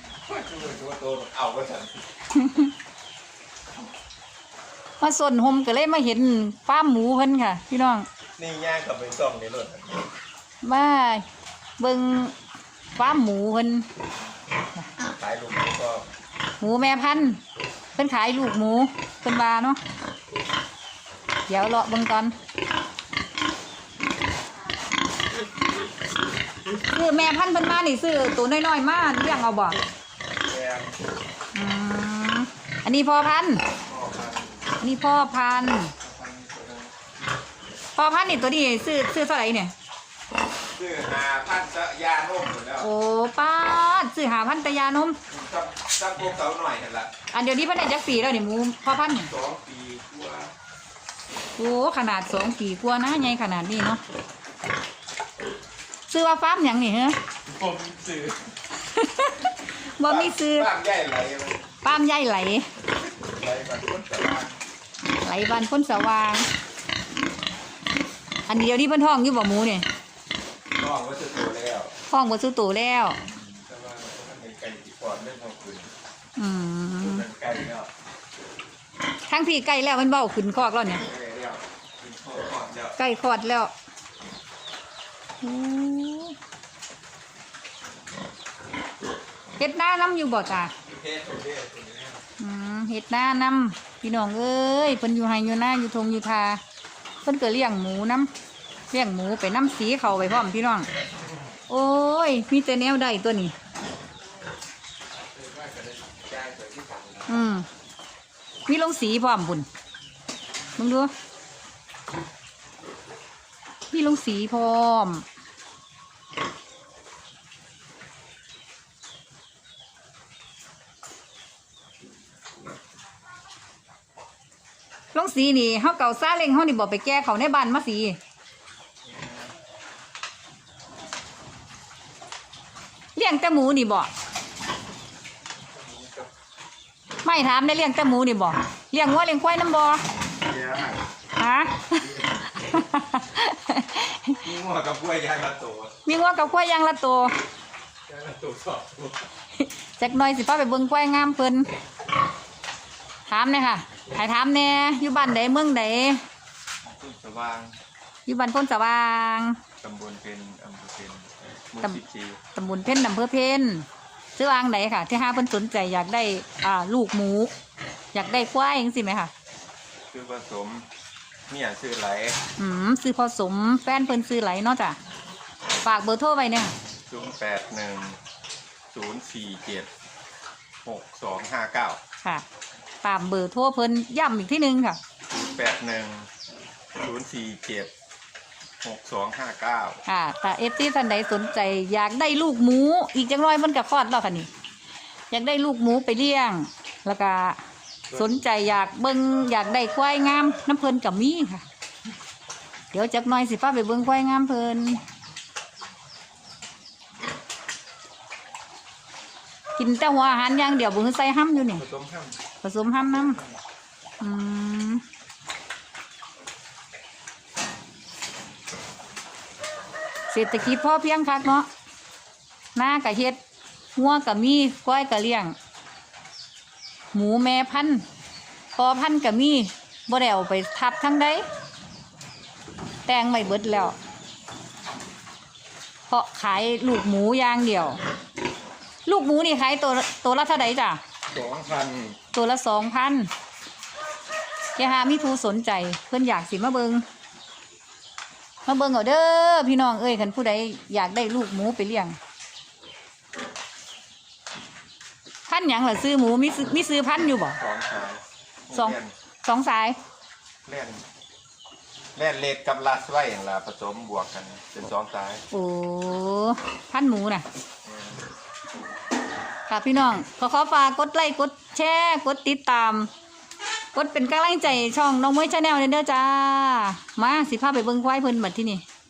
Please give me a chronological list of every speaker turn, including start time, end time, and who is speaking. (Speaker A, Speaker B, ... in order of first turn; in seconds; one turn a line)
Speaker A: 0.3-2.1
Speaker B: 2.3-2.7
Speaker B: 5.0-8.1
Speaker A: 8.4-10.0
Speaker B: 10.6-11.2
Speaker B: 11.8-12.4
Speaker B: 13.0-13.9
Speaker A: 15.0-16.1
Speaker B: 16.6-17.4
Speaker B: 17.9-19.8
Speaker B: 21.5-22.4
Speaker B: 26.8-29.8
Speaker A: 30.4-31.0
Speaker B: 31.5-33.7
Speaker A: 33.7-34.7
Speaker B: 34.8-35.9
Speaker A: 36.0-36.9
Speaker B: 38.0-39.7
Speaker A: 40.8-42.9
Speaker B: 42.8-45.2
Speaker A: 45.3-47.1
Speaker B: 47.3-49.3
Speaker A: 49.2-50.5
Speaker B: 51.6-54.0
Speaker B: 56.1-57.2
Speaker A: 57.5-58.4
Speaker B: 58.7-60.7
Speaker A: 60.0-61.6
Speaker B: 61.8-62.7
Speaker A: 63.2-64.6
Speaker B: 65.2-66.5
Speaker B: 68.5-69.9
Speaker A: 70.7-71.9
Speaker B: 72.1-73.2
Speaker A: 73.5-75.9
Speaker B: 76.4-77.2
Speaker A: 77.0-77.9
Speaker B: 79.3-81.1
Speaker A: 81.0-83.0
Speaker B: 83.0-83.7
Speaker B: 85.4-86.3
Speaker B: 89.6-90.7
Speaker A: 90.9-92.2
Speaker B: 92.4-96.6
Speaker B: 97.2-98.3
Speaker B: 98.9-100.9
Speaker B: 101.7-103.5
Speaker A: 105.4-107.4
Speaker B: 107.3-107.7
Speaker B: 108.7-109.7
Speaker B: 110.8-111.1
Speaker B: 113.9-115.3
Speaker B: 125.1-128.2
Speaker B: 133.2-134.1
Speaker A: 135.8-136.3
Speaker B: 137.2-140.0
Speaker A: 140.4-141.0
Speaker B: 141.4-144.4
Speaker A: 144.4-145.9
Speaker B: 146.1-147.4
Speaker A: 148.1-149.2
Speaker B: 149.6-151.7
Speaker B: 153.3-156.2
Speaker A: 156.8-157.8
Speaker B: 158.3-159.6
Speaker A: 159.8-162.4
Speaker B: 162.6-167.5
Speaker B: 168.1-169.3
Speaker A: 170.1-170.9
Speaker A: 171.5-172.4
Speaker B: 172.6-175.0
Speaker B: 175.8-176.7
Speaker A: 177.1-178.2
Speaker A: 178.9-179.9
Speaker A: 180.8-182.0
Speaker B: 183.0-185.0
Speaker A: 185.3-186.3
Speaker A: 187.0-187.9
Speaker A: 188.8-190.0
Speaker B: 190.1-194.5
Speaker B: 195.3-201.7
Speaker B: 202.9-205.0
Speaker B: 209.8-211.8
Speaker A: 211.8-212.4
Speaker B: 212.6-213.4
Speaker B: 214.2-215.0
Speaker B: 220.3-221.7
Speaker B: 222.8-223.4
Speaker B: 224.0-225.6
Speaker B: 227.1-228.1
Speaker B: 228.8-231.5
Speaker B: 233.1-234.0
Speaker B: 236.1-238.0
Speaker B: 239.1-241.0
Speaker A: 241.3-242.2
Speaker B: 242.3-243.3
Speaker B: 244.8-247.1
Speaker B: 248.7-252.2
Speaker B: 255.5-257.6
Speaker A: 257.6-259.1
Speaker B: 258.7-260.0
Speaker A: 260.6-261.0
Speaker A: 262.1-265.4
Speaker B: 265.5-267.5
Speaker A: 267.9-268.2
Speaker B: 269.7-273.1
Speaker B: 273.9-278.8